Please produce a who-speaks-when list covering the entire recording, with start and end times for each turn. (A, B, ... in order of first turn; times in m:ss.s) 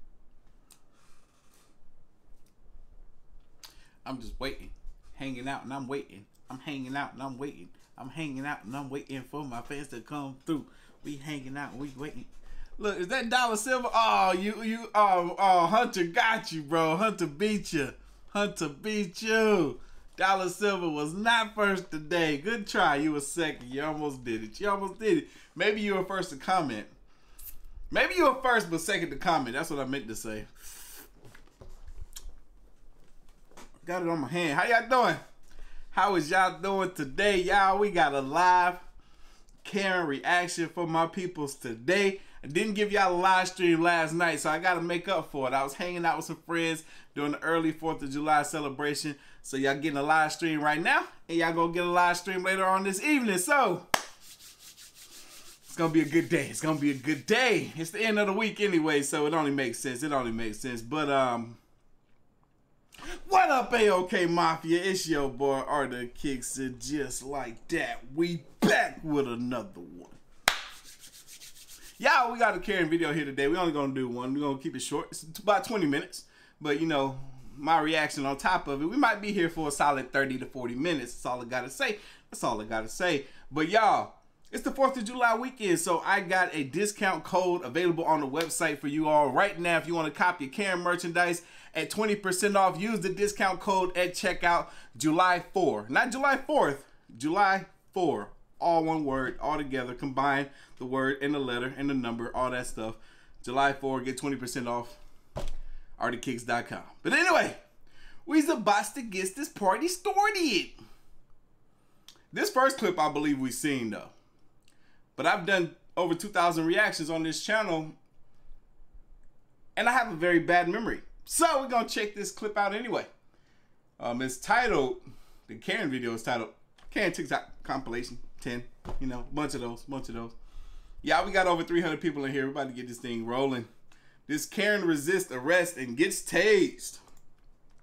0:04.0-0:26.9 A
0:27.9-0:31.0 A
0:33.8-0:35.2 A
0:35.9-0:38.8 A
0:39.6-0:53.9 A
0:55.7-1:01.6 A
1:03.2-1:10.2 A
1:12.0-1:45.0 A
1:46.0-1:47.6 A
1:48.2-1:50.8 A
1:52.3-1:54.1 A
1:55.2-1:58.0 A
1:59.8-2:03.1 A
2:04.0-2:10.4 A
2:11.0-2:13.7 A
2:14.3-2:17.0 A